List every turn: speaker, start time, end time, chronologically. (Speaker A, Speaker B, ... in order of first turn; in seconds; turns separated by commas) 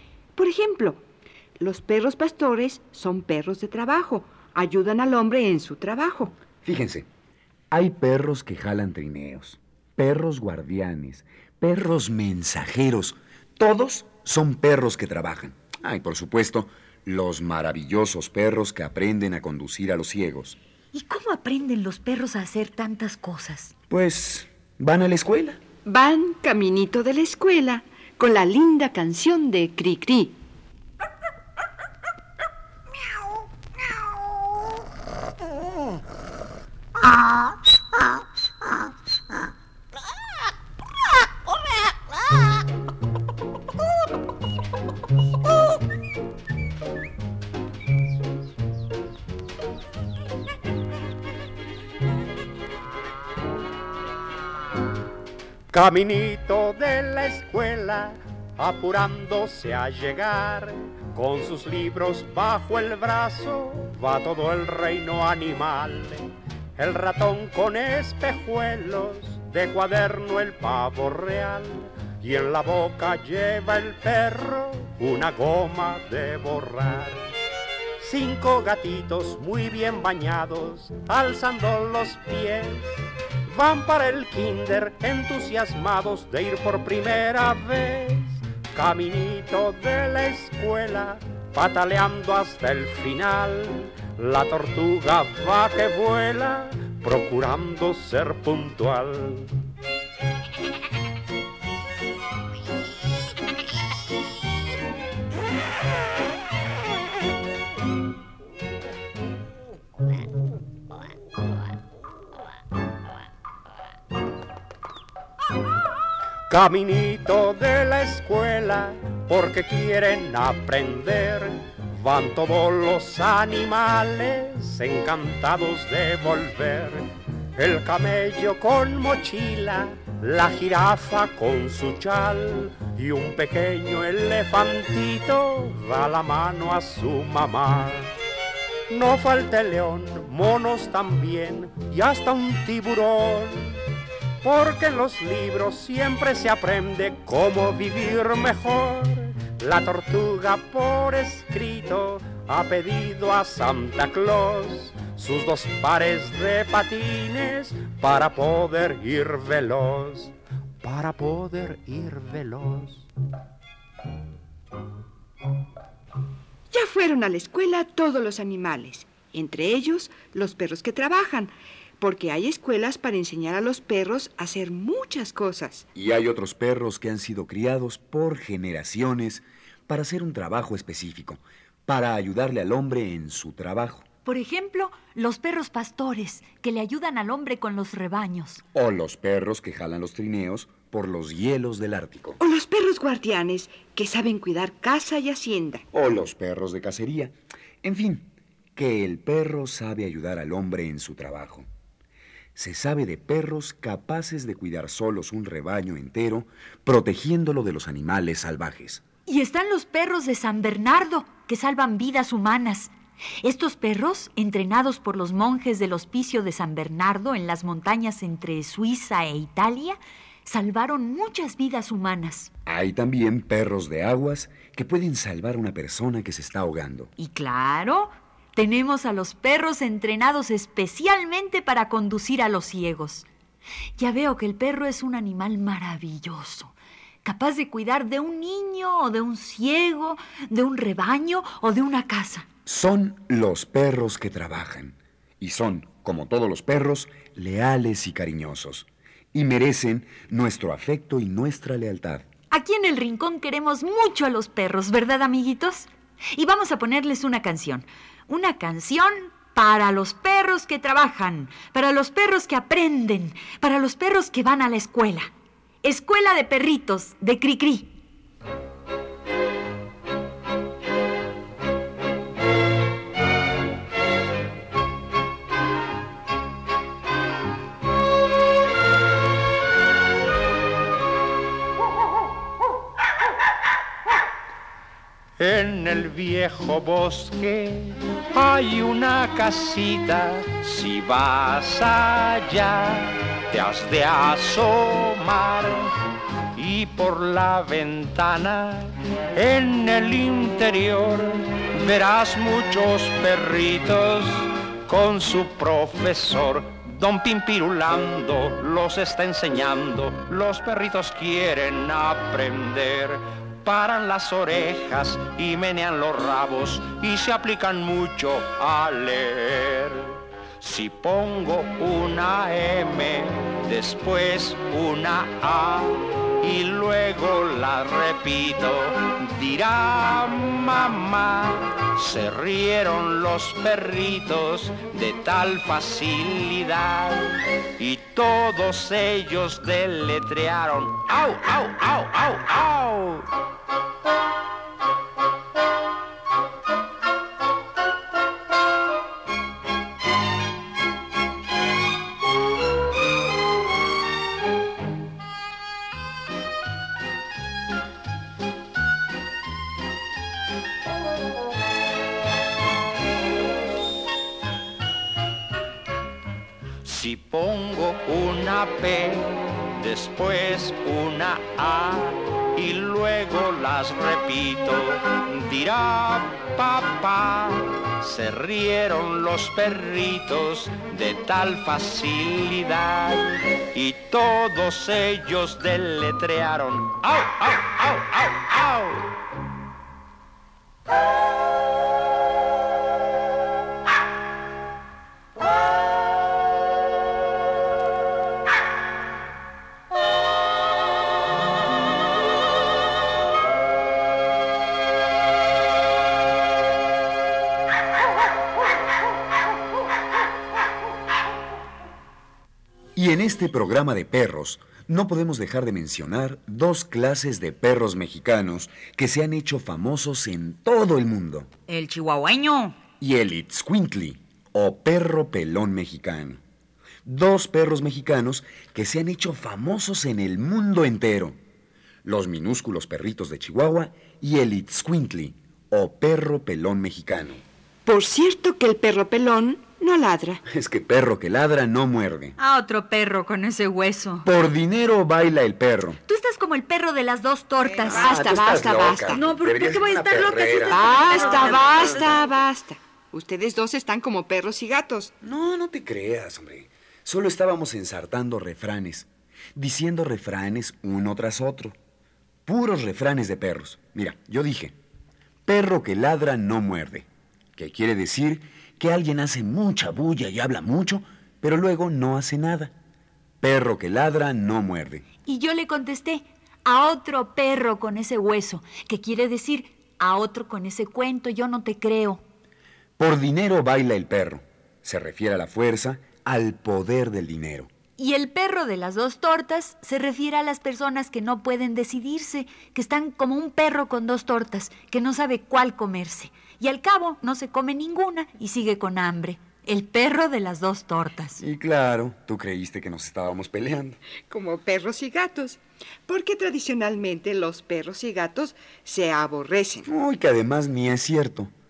Speaker A: 0.3-1.0, Speaker A: 1.6-6.4, Speaker B: 6.6-7.1, Speaker B: 7.7-20.6, Speaker C: 20.9-23.7, Speaker B: 23.9-25.6, Speaker A: 25.9-30.4, Speaker D: 55.7-77.3, Speaker D: 78.0-99.5, Speaker D: 116.5-138.1, Speaker D: 138.9-143.8, Speaker D: 144.4-163.1, Speaker A: 166.7-175.9, Speaker B: 175.9-184.1, Speaker C: 184.2-188.6, Speaker B: 188.7-192.4, Speaker A: 192.4-195.8, Speaker B: 195.9-201.7, Speaker B: 202.6-209.0, Speaker C: 209.3-222.5, Speaker B: 222.7-227.1, Speaker C: 227.2-233.3, Speaker C: 234.0-242.5, Speaker B: 242.7-252.3, Speaker C: 252.5-265.3, Speaker C: 265.8-267.9, Speaker D: 285.4-295.9, Speaker D: 296.6-343.3, Speaker D: 366.8-389.1, Speaker B: 412.9-421.5, Speaker C: 421.7-422.8, Speaker B: 423.0-426.4, Speaker B: 427.1-431.4, Speaker B: 432.0-437.4, Speaker A: 437.9-440.4, Speaker B: 440.4-442.4, Speaker C: 442.4-444.3, Speaker B: 444.2-446.0, Speaker C: 446.1-448.2, Speaker A: 447.8-449.2, Speaker B: 447.9-451.5, Speaker C: 449.1-451.9, Speaker A: 450.7-455.1, Speaker B: 455.2-461.8, Speaker B: 462.5-464.8, Speaker B: 465.4-472.8, Speaker B: 473.4-475.1, Speaker C: 475.2-482.2, Speaker B: 483.0-487.7, Speaker C: 488.0-501.4, Speaker B: 501.4-504.0, Speaker A: 504.3-509.9, Speaker B: 509.9-511.5